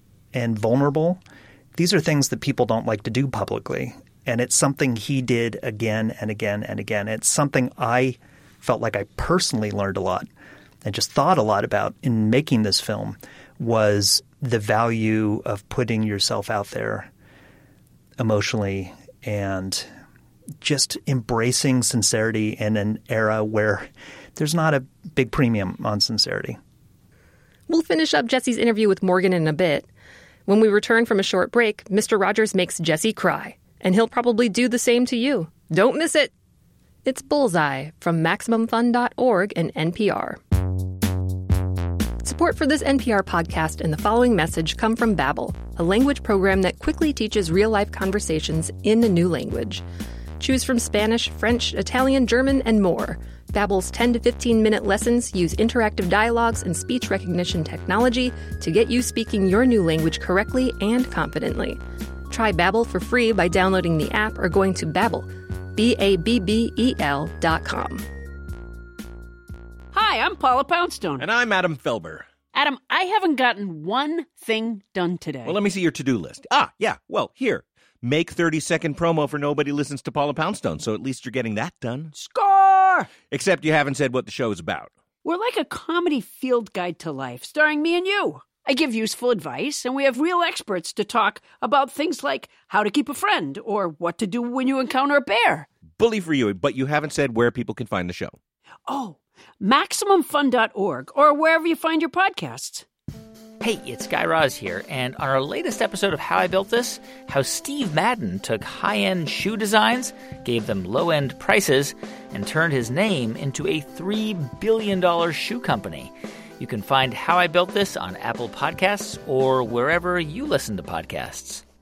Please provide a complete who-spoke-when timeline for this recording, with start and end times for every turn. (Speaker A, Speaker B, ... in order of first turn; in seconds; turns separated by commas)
Speaker A: 0.3-1.2, Speaker A: 1.7-10.3, Speaker A: 10.8-17.1, Speaker A: 18.2-19.9, Speaker A: 20.6-26.6, Speaker B: 27.7-29.9, Speaker B: 30.5-36.3, Speaker B: 37.0-40.4, Speaker B: 42.2-49.8, Speaker B: 50.4-68.0, Speaker C: 69.9-71.2, Speaker D: 71.2-72.2, Speaker C: 72.5-75.6, Speaker D: 75.5-82.1, Speaker C: 82.2-83.1, Speaker D: 83.2-84.9, Speaker C: 85.2-95.7, Speaker D: 96.0-98.3, Speaker C: 98.9-102.8, Speaker E: 103.6-121.6